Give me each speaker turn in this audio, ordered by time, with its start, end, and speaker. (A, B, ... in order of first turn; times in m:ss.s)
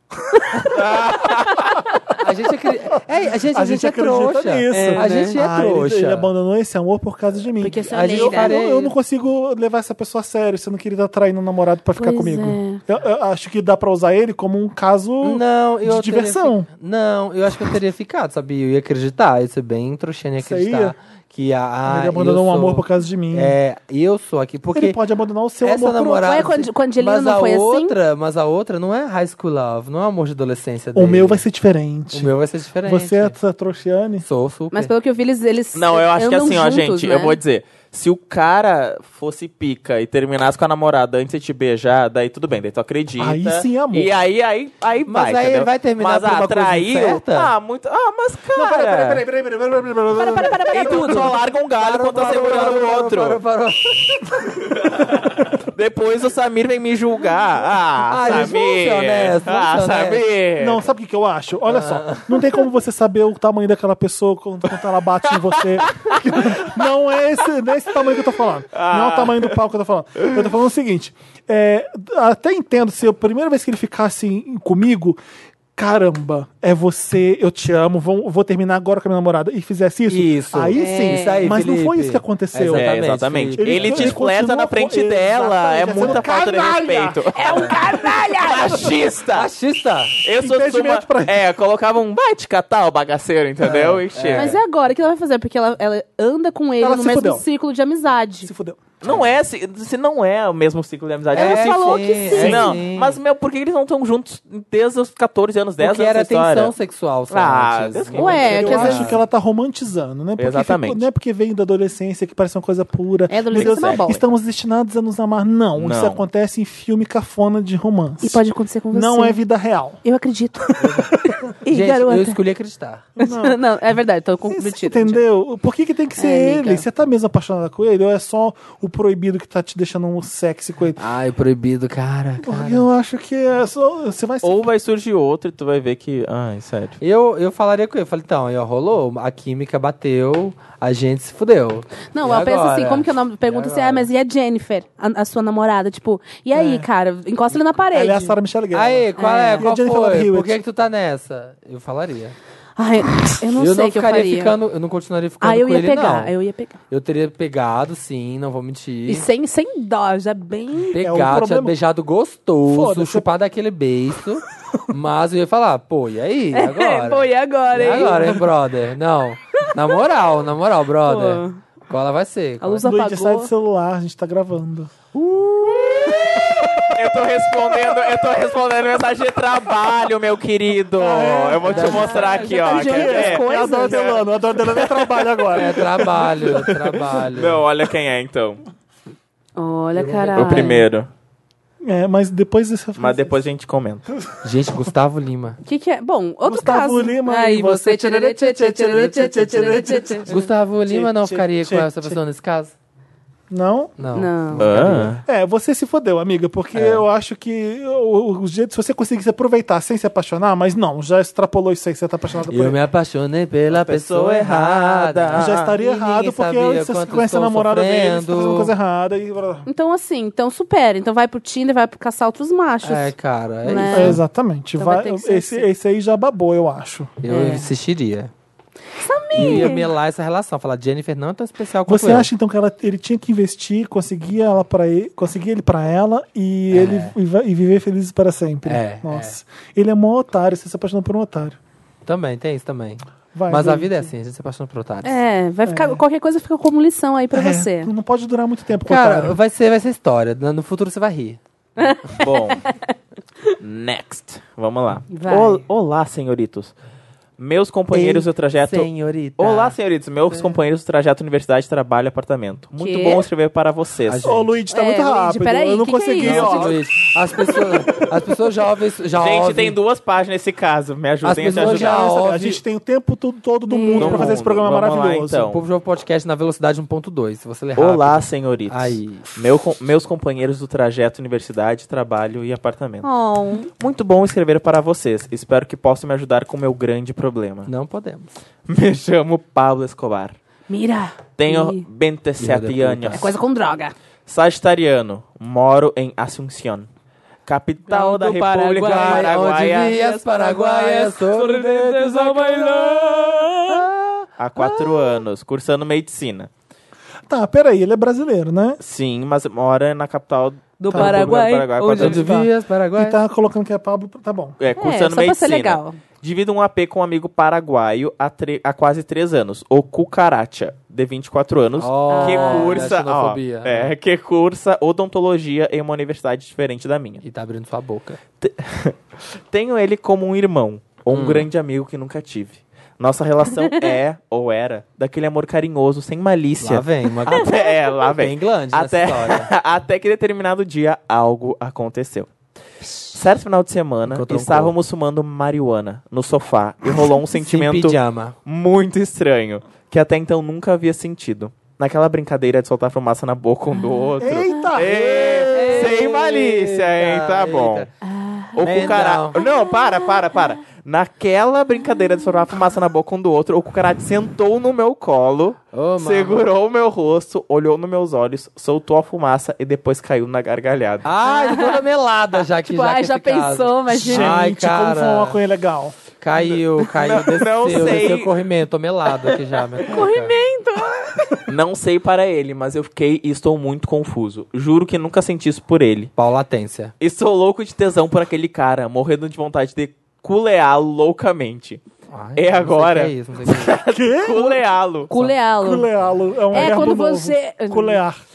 0:00.4-0:00.8 A
0:00.7-0:01.6 B
0:01.5-0:02.1 A
0:02.2-0:06.3 C
0:03.4-0:16.7 D
0:04.7-0:05.4 A
0:07.6-0:08.6 A
0:07.9-0:08.9 C
0:12.0-0:12.8 A
0:15.2-0:25.0 C
0:20.4-0:21.0 D
0:21.8-0:23.6 D
0:24.7-0:26.5 D
0:25.6-0:31.4 C
0:26.2-0:27.9 A
0:30.9-0:32.3 D
0:32.1-0:33.3 C
0:32.8-0:34.3 D
0:34.2-0:34.9 C
0:34.7-0:37.4 A
0:35.7-0:49.2 B
0:43.2-0:44.1 D
0:45.0-0:47.5 C
0:48.5-0:51.3 D
0:50.1-0:51.4 A
0:50.7-0:53.4 B
0:51.8-0:54.0 C
0:54.9-1:00.8 B
0:58.1-1:00.2 C
0:58.3-0:58.5 D
1:00.6-1:15.2 D
1:01.7-1:02.4 C
1:05.8-1:06.1 B
1:08.7-1:09.5 B
1:15.8-1:22.9 D
1:20.1-1:24.2 C
1:20.7-1:21.5 A
1:22.7-1:27.6 B
1:23.6-1:27.2 D
1:27.3-1:28.9 A
1:27.5-1:27.8 C
1:28.4-1:29.5 B
1:29.3-1:30.1 C
1:30.2-1:34.6 B
1:30.3-1:31.4 D
1:33.6-1:34.6 C
1:34.3-1:38.5 A
1:36.8-1:37.4 D
1:38.4-1:39.0 D
1:39.0-1:46.7 B
1:39.0-1:39.3 C
1:41.3-1:43.2 C
1:41.3-1:42.7 A
1:42.3-1:42.8 D
1:45.8-1:49.2 C
1:47.3-1:48.9 B
1:48.1-1:49.1 A
1:48.3-2:00.0 D
1:50.4-1:51.0 B
1:53.3-1:54.2 A
1:53.5-1:54.1 B
1:55.8-1:56.2 B
1:58.2-1:59.4 A
2:00.0-2:02.4 A
2:00.8-2:01.1 C
2:01.1-2:01.4 D
2:01.7-2:03.0 C
2:03.2-2:03.6 D
2:03.2-2:05.2 A
2:04.5-2:11.0 D
2:06.2-2:06.8 A
2:11.0-2:12.8 C
2:12.4-2:14.7 D
2:14.4-2:17.0 B
2:17.0-2:24.1 C
2:22.1-2:28.4 A
2:26.5-2:26.9 D
2:27.9-2:30.6 D
2:28.7-2:32.3 C
2:29.2-2:29.7 A
2:32.8-2:34.6 A
2:33.6-2:36.3 C
2:35.4-2:36.8 A
2:36.9-2:39.3 C
2:39.1-2:41.0 A
2:40.9-2:52.9 C
2:41.0-2:41.8 D
2:42.7-2:43.3 D
2:46.5-2:48.4 A
2:47.8-2:48.4 D
2:51.0-2:51.6 A
2:52.6-2:53.5 A
2:52.8-2:54.9 D
2:55.1-2:56.3 C
2:56.0-3:04.2 B
2:56.5-2:56.9 D
3:00.9-3:06.1 D
3:01.6-3:04.1 A
3:01.7-3:02.2 C
3:05.5-3:07.6 C
3:06.7-3:08.6 B
3:09.6-3:10.9 A
3:09.9-3:10.8 C
3:10.3-3:11.1 B
3:11.8-3:13.4 D
3:13.0-3:14.0 B
3:14.4-3:15.6 C
3:15.6-3:20.4 A
3:16.4-3:22.2 D
3:20.3-3:22.7 C
3:23.5-3:24.0 D
3:24.0-3:25.1 C
3:24.1-3:24.7 A
3:24.6-3:25.2 B
3:25.2-3:32.8 D
3:26.7-3:27.0 C
3:32.5-3:38.7 C
3:33.7-3:35.7 B
3:35.4-3:39.6 D
3:39.6-3:44.2 A
3:42.8-3:44.2 C
3:43.9-3:47.2 D
3:44.8-3:45.6 A
3:47.2-3:48.3 C
3:47.3-3:47.7 A
3:49.0-3:49.9 A
3:49.3-3:52.3 C
3:51.8-4:01.6 D
3:56.7-3:57.1 C
3:58.6-3:59.4 C
4:02.0-4:05.2 C
4:03.3-4:04.1 D
4:05.0-4:07.9 A
4:05.6-4:06.0 D
4:07.3-4:09.4 D
4:08.8-4:11.4 C
4:11.8-4:12.8 A
4:12.2-4:12.6 B
4:13.6-4:16.7 B
4:15.1-4:15.6 A
4:17.4-4:24.3 B
4:17.9-4:19.7 C
4:22.8-4:23.3 A
4:24.1-4:24.6 C
4:24.2-4:26.8 D
4:24.7-4:26.7 A
4:26.2-4:29.8 C
4:26.3-4:26.6 B
4:29.1-4:32.1 B
4:31.2-4:32.6 C
4:31.5-4:35.5 D
4:33.7-4:34.4 A
4:34.0-4:35.6 B
4:35.5-4:39.2 C
4:37.8-4:43.1 B
4:43.0-4:43.7 A
4:43.8-4:47.7 B
4:47.6-4:48.3 C
4:48.7-4:50.4 B
4:50.7-4:51.8 A
4:51.4-4:53.4 B
4:52.4-4:53.3 C
4:53.1-4:53.9 A
4:54.3-4:56.9 B
4:57.4-5:00.0 B
4:57.9-5:03.8 A
4:58.8-5:02.9 C
5:01.8-5:03.6 D
5:03.7-5:05.2 C
5:04.4-5:06.5 B
5:07.3-5:08.8 D
5:08.8-5:12.3 B
5:10.8-5:12.4 A
5:10.9-5:11.3 D
5:11.9-5:13.2 C
5:12.3-5:14.6 D
5:14.6-5:27.2 B
5:14.8-5:16.0 A
5:21.8-5:23.9 C
5:22.0-5:22.9 A
5:27.2-5:28.2 C
5:28.4-5:42.3 B
5:31.1-5:31.5 C
5:33.6-5:34.0 A
5:36.6-5:37.5 C
5:37.3-5:37.9 A
5:38.1-5:39.5 C
5:43.1-5:57.9 B
5:44.0-5:44.7 C
5:47.4-5:48.4 C
5:53.7-5:54.8 A
5:54.2-5:55.9 D
5:55.5-5:57.9 C
5:55.5-5:55.9 A
5:58.0-6:00.6 A
5:58.5-6:11.0 B
5:58.6-5:59.4 C
6:01.8-6:02.3 A
6:05.7-6:06.4 C
6:11.0-6:15.4 C
6:11.3-6:11.8 A
6:12.6-6:14.4 A
6:13.9-6:16.0 D
6:16.2-6:20.3 C
6:16.9-6:18.4 B
6:19.9-6:21.4 A
6:21.5-6:26.1 B
6:26.2-6:26.9 C
6:27.0-6:31.8 B
6:32.1-6:33.8 C
6:32.4-6:35.1 B
6:33.9-6:34.6 D
6:35.1-6:35.9 A
6:35.1-6:35.4 C
6:35.6-6:38.2 D
6:36.5-6:38.0 A
6:36.5-6:36.9 C